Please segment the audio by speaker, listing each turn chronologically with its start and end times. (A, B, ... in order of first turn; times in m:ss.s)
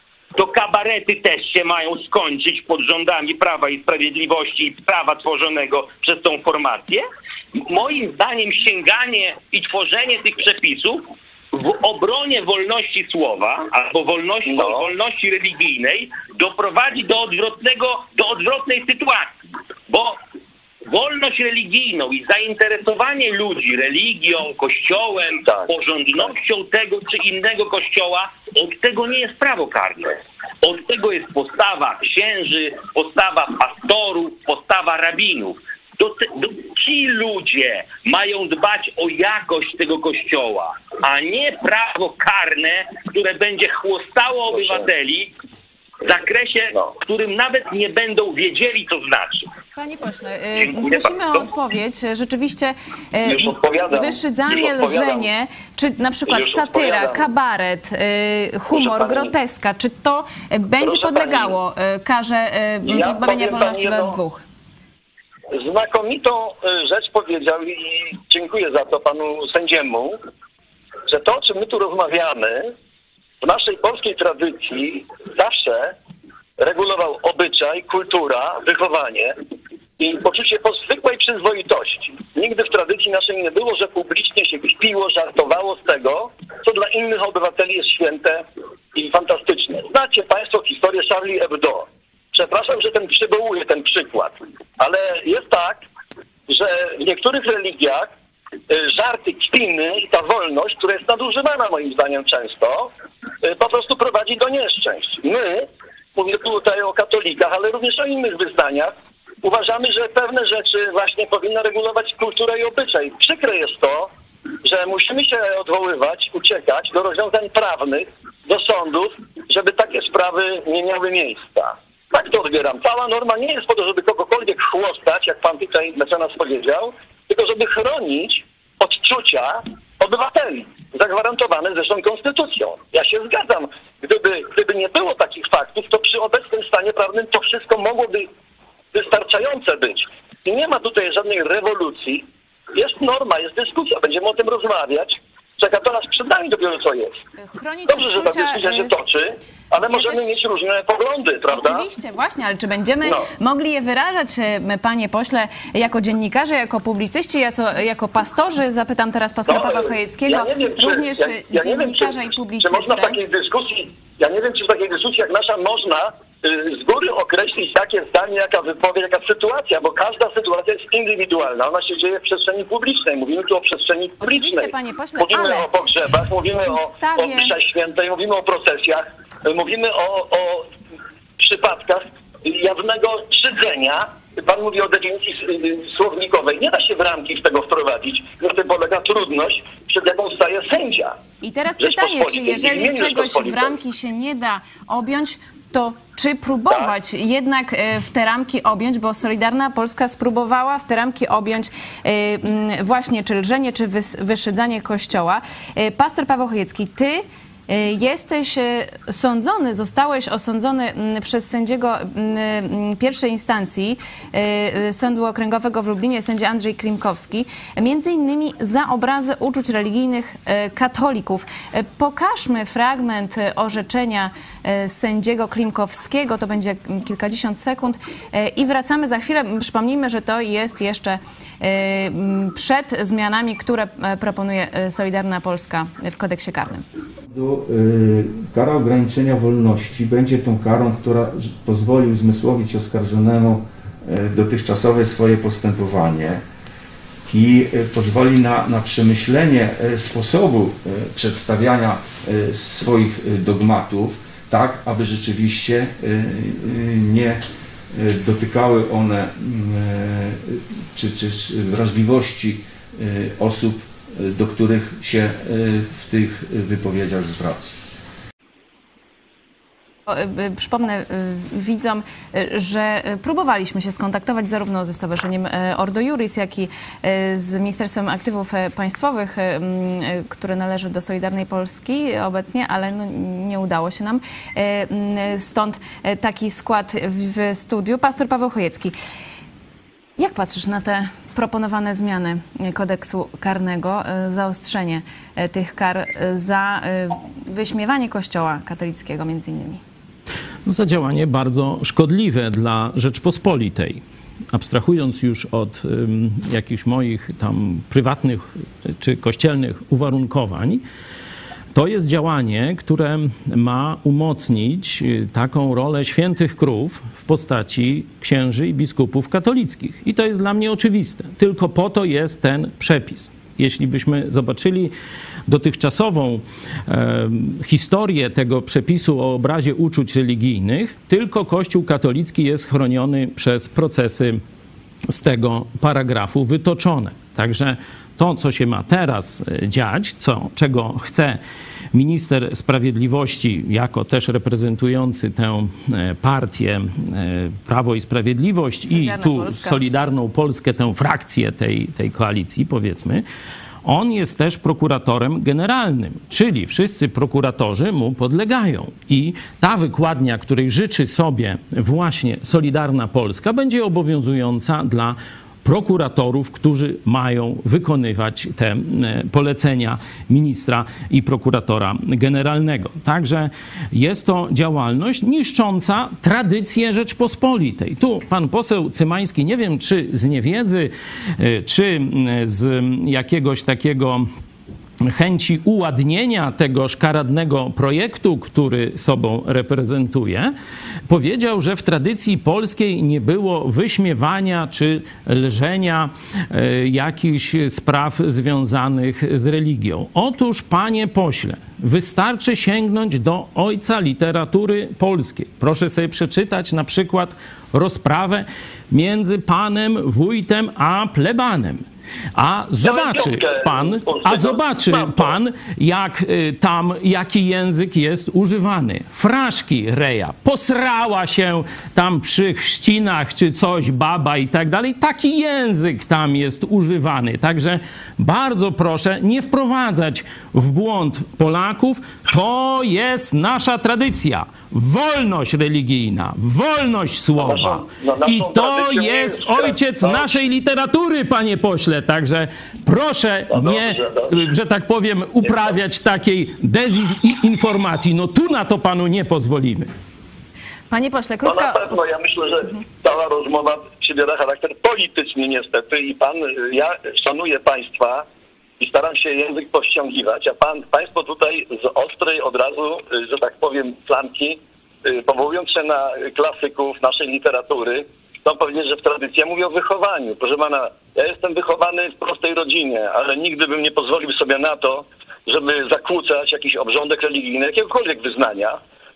0:00.4-0:19.4 A
0:14.5-0:14.9 B
0:19.9-0:20.2 A
0:20.9-0:45.3 A
0:25.4-0:26.3 B
0:44.5-0:44.9 B
0:46.0-0:49.5 A
0:49.8-1:04.4 C
0:50.6-0:51.1 B
0:53.2-0:55.3 B
0:56.3-0:57.3 B
0:58.7-0:59.3 B
1:00.8-1:01.6 B
1:02.8-1:04.2 B
1:05.5-1:10.2 B
1:11.1-1:12.7 B
1:13.4-1:16.0 B
1:16.6-1:19.4 B
1:20.0-1:35.8 B
1:36.5-1:38.1 B
1:38.7-1:42.9 B
1:43.4-1:54.1 B
1:54.6-2:18.3 B
2:18.9-2:27.2 B
2:27.4-2:28.9 C
2:27.9-2:31.9 B
2:29.9-2:30.4 C
2:31.5-2:43.2 C
2:33.0-2:33.3 B
2:39.5-3:00.7 B
2:54.2-2:55.7 C
2:56.6-2:57.5 C
3:01.4-3:11.2 B
3:11.4-3:56.8 C
3:11.8-3:13.8 B
3:57.3-4:06.4 D
4:07.3-4:27.9 D
4:30.1-4:49.0 C
4:50.2-4:59.8 C
5:00.6-5:04.0 E
5:04.5-5:10.8 E
5:11.7-5:24.9 E
5:25.5-5:34.4 E
5:35.1-5:41.4 E
5:41.9-5:53.2 E
5:48.9-5:49.8 C
5:53.8-6:24.3 E
6:25.0-6:30.5 E
6:31.1-7:29.9 E
6:52.8-6:55.4 B
7:17.4-7:20.4 B
7:23.5-7:24.4 B
7:25.4-7:25.8 B
7:30.9-7:32.0 C
7:31.4-7:38.3 B
7:38.8-7:58.8 B